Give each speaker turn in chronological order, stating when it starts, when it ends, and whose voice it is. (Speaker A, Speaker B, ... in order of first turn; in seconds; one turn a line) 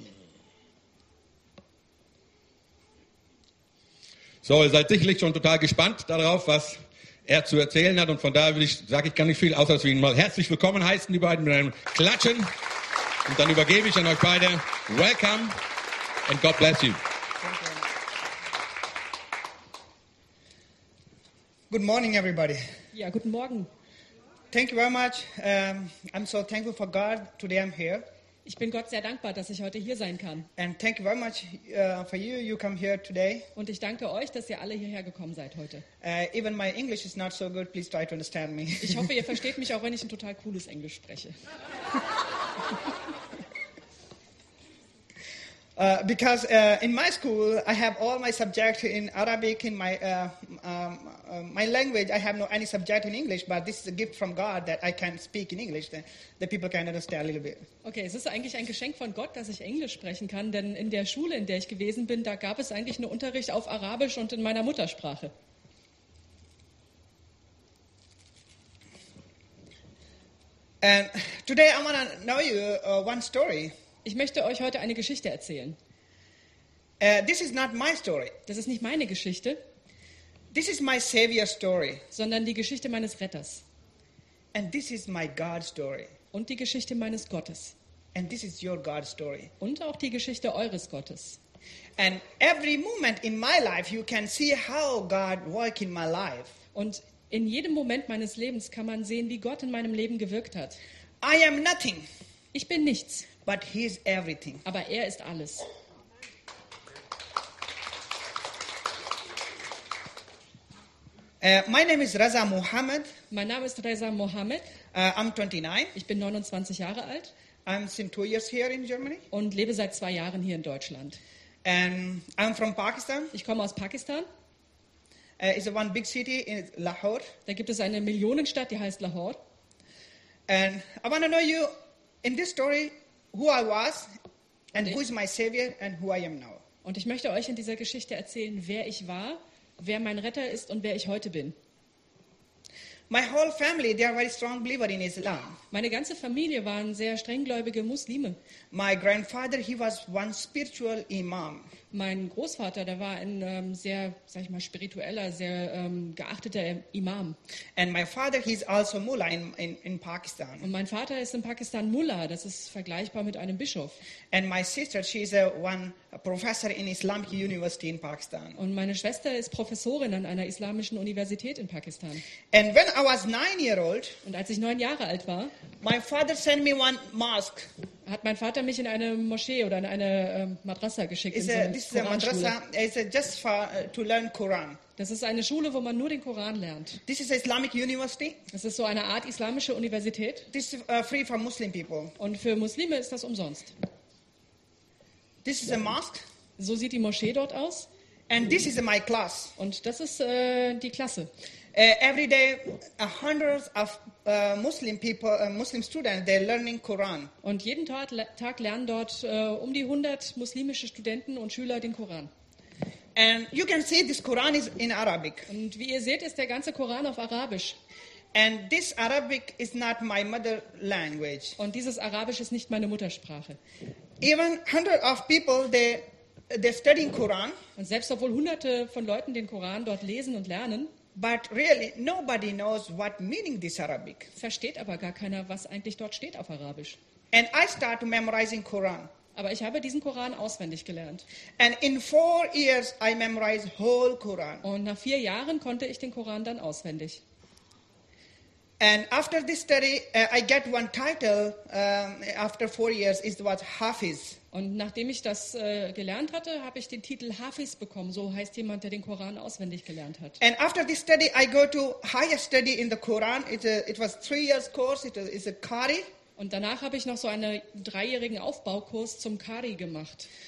Speaker A: 4.4-12.5
Speaker A: 13.3-15.6
Speaker A: 16.3-17.0
Speaker B: 17.4-17.9
Speaker B: 21.7-22.6
Speaker C: 22.9-23.7
Speaker B: 24.5-28.0
Speaker C: 28.4-30.5
Speaker B: 30.6-33.5
Speaker C: 33.5-35.9
Speaker B: 36.0-39.2
Speaker C: 38.8-41.4
Speaker B: 45.8-57.7
Speaker C: 57.8-65.3
Speaker B: 70.8-73.7
Speaker C: 74.0-75.8
Speaker B: 77.0-78.3
Speaker C: 78.5-79.6
Speaker B: 80.5-82.0
Speaker C: 82.1-83.6
Speaker B: 84.5-86.1
Speaker C: 86.3-87.8
Speaker B: 88.1-89.5
Speaker C: 89.6-91.4
Speaker B: 92.0-96.6
Speaker C: 96.8-100.8
Speaker B: 101.2-102.1
Speaker C: 102.5-103.3
Speaker B: 103.5-104.6
Speaker C: 104.7-105.7
Speaker B: 111.4-113.1
Speaker C: 113.3-114.7
Speaker B: 114.9-116.0
Speaker C: 116.0-117.3
Speaker B: 117.7-119.3
Speaker C: 119.3-121.2
Speaker B: 121.6-123.3
Speaker C: 123.3-124.3
Speaker B: 125.4-127.3
Speaker C: 127.5-129.4
Speaker B: 130.5-131.7
Speaker B: 132.2-134.1
Speaker B: 134.7-136.6
Speaker C: 136.8-141.6
Speaker B: 143.1-145.6
Speaker C: 145.7-148.4
Speaker B: 148.7-151.7
Speaker C: 151.9-157.4
Speaker B: 157.8-160.7
Speaker C: 160.6-164.0
Speaker B: 164.3-168.6
Speaker C: 168.6-172.2
Speaker B: 172.5-174.2
Speaker C: 174.2-175.6
Speaker B: 175.8-177.7
Speaker C: 178.1-182.6
Speaker B: 181.3-184.8
Speaker C: 185.0-187.0
Speaker B: 187.1-188.4
Speaker C: 188.5-190.5
Speaker B: 190.5-192.2
Speaker C: 192.2-193.7
Speaker B: 195.4-196.2
Speaker C: 196.6-197.9
Speaker B: 198.3-199.6
Speaker C: 199.6-201.3
Speaker B: 201.7-207.3
Speaker C: 207.4-212.3
Speaker B: 213.2-215.5
Speaker C: 215.5-217.8
Speaker B: 218.3-221.6
Speaker C: 221.6-223.6
Speaker B: 224.2-227.6
Speaker C: 227.8-230.9
Speaker B: 231.2-234.3
Speaker C: 234.4-237.0
Speaker B: 237.3-239.1
Speaker C: 239.4-241.2
Speaker B: 241.6-244.6
Speaker C: 244.6-247.2
Speaker B: 248.8-254.4
Speaker C: 254.5-260.4
Speaker B: 260.4-266.1
Speaker C: 266.4-270.3